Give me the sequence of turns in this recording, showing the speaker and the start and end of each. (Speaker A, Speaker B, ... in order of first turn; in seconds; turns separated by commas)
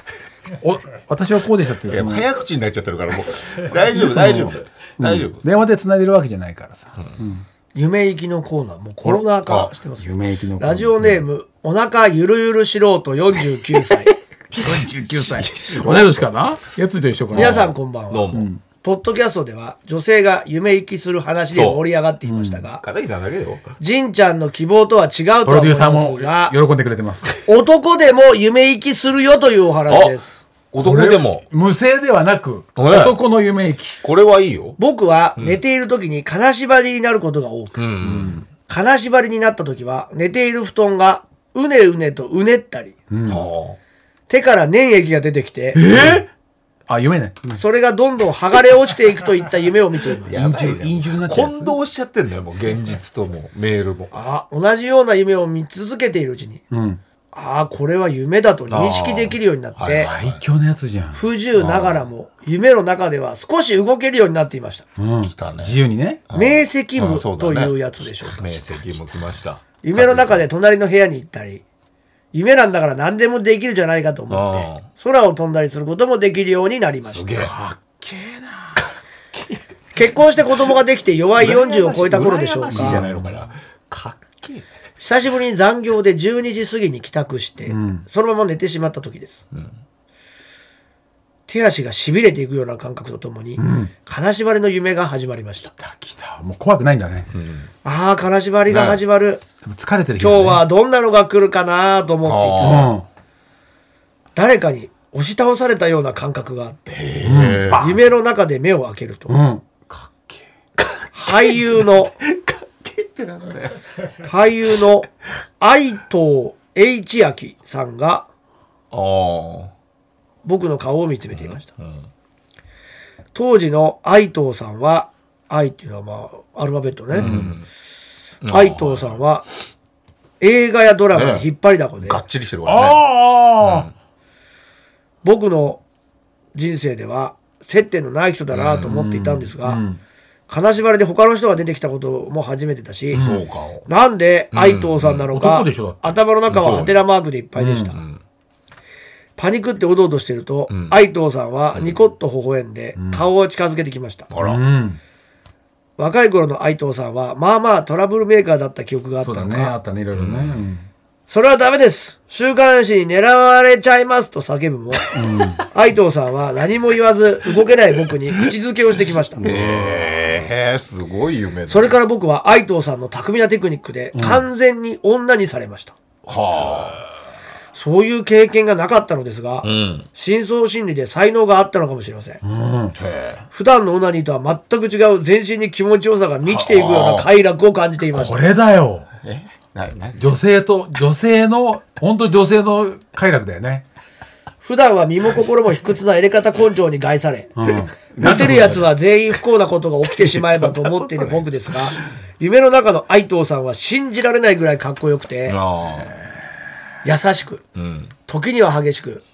Speaker A: 0.6-2.3, Speaker B: 1.9-5.4, Speaker A: 3.9-7.4, Speaker C: 7.7-14.1, Speaker A: 10.0-11.2, Speaker B: 14.5-16.3, Speaker A: 14.5-17.7, Speaker B: 17.3-18.5, Speaker C: 17.3-22.8, Speaker A: 18.3-18.6, Speaker B: 21.5-21.8, Speaker A: 22.2-22.6, Speaker B: 22.8-23.6, Speaker C: 23.8-26.5, Speaker A: 25.4-27.3, Speaker C: 27.4-30.4, Speaker B: 29.9-30.1, Speaker B: 30.7-31.4, Speaker A: 30.8-34.0, Speaker B: 32.8-33.1, Speaker B: 34.0-34.8, Speaker C: 34.8-37.8, Speaker B: 37.8-38.4, Speaker A: 38.0-38.4, Speaker C: 38.7-43.0, Speaker A: 43.1-43.4, Speaker B: 43.3-43.8, Speaker C: 44.3-45.8, Speaker A: 45.7-46.3, Speaker A: 46.9-47.6, Speaker C: 47.6-50.4, Speaker A: 50.3-51.8, Speaker B: 50.3-54.1, Speaker C: 54.1-56.6, Speaker A: 56.7-57.0, Speaker C: 57.3-60.1, Speaker B: 58.7-60.4, Speaker A: 59.9-61.2, Speaker C: 61.1-64.8, Speaker B: 61.5-62.0, Speaker A: 65.0-66.2, Speaker B: 65.2-70.4, Speaker C: 66.3-68.5, Speaker C: 69.8-71.6, Speaker C: 72.3-77.3, Speaker B: 74.3-74.9, Speaker B: 77.0-77.5, Speaker A: 77.3-78.8, Speaker C: 79.9-83.0, Speaker B: 81.4-84.7, Speaker A: 82.7-83.5, Speaker C: 85.0-89.4, Speaker A: 87.7-88.0, Speaker C: 91.5-95.7, Speaker A: 93.6-93.9, Speaker A: 95.8-97.3, Speaker B: 97.3-97.7, Speaker C: 97.8-99.4, Speaker B: 98.7-99.0, Speaker A: 99.6-100.6, Speaker C: 100.2-102.9, Speaker B: 102.2-102.9, Speaker A: 102.6-103.0, Speaker C: 104.3-107.0, Speaker B: 106.9-107.9, Speaker A: 107.2-108.0, Speaker C: 107.7-109.4, Speaker A: 109.3-110.4, Speaker B: 110.9-111.6, Speaker C: 111.1-112.1, Speaker B: 112.2-113.8, Speaker C: 114.2-115.1, Speaker C: 115.6-118.3, Speaker B: 118.9-119.7, Speaker C: 120.4-121.7, Speaker B: 121.3-122.0, Speaker C: 123.3-127.3, Speaker B: 127.1-127.7, Speaker A: 127.2-127.5, Speaker B: 128.4-129.2, Speaker C: 128.5-129.4, Speaker C: 130.4-132.2, Speaker B: 131.1-131.4, Speaker B: 132.0-133.0, Speaker A: 132.7-133.9, Speaker B: 133.6-133.9, Speaker C: 135.2-135.8, Speaker C: 136.5-139.8, Speaker B: 138.5-138.9, Speaker A: 138.8-140.0, Speaker C: 140.5-143.2, Speaker A: 143.1-143.4, Speaker B: 143.1-143.9, Speaker C: 143.8-148.0, Speaker B: 144.5-145.3, Speaker A: 145.3-146.1, Speaker B: 146.5-147.0, Speaker A: 147.6-147.9, Speaker C: 149.4-154.3, Speaker B: 150.7-151.0, Speaker B: 151.7-152.0, Speaker A: 152.9-153.2, Speaker B: 154.3-154.6, Speaker A: 154.4-155.0, Speaker C: 156.0-159.7, Speaker A: 159.2-160.9, Speaker B: 160.1-160.6, Speaker C: 161.3-165.1, Speaker A: 165.1-165.6, Speaker C: 165.7-169.4, Speaker A: 169.4-170.3, Speaker B: 169.4-172.0, Speaker C: 171.7-175.9, Speaker A: 174.1-174.4, Speaker B: 176.2-177.0, Speaker C: 177.7-182.4, Speaker B: 179.6-180.1, Speaker A: 182.4-182.9, Speaker B: 183.0-183.4, Speaker C: 183.5-188.4, Speaker B: 186.5-187.3, Speaker A: 188.1-189.1, Speaker B: 189.2-190.3, Speaker A: 190.2-193.8, Speaker C: 194.6-197.6, Speaker A: 197.6-198.9, Speaker C: 198.2-205.6, Speaker B: 200.2-201.7, Speaker B: 205.5-206.1, Speaker C: 207.0-207.6, Speaker B: 207.8-208.1, Speaker C: 208.2-209.2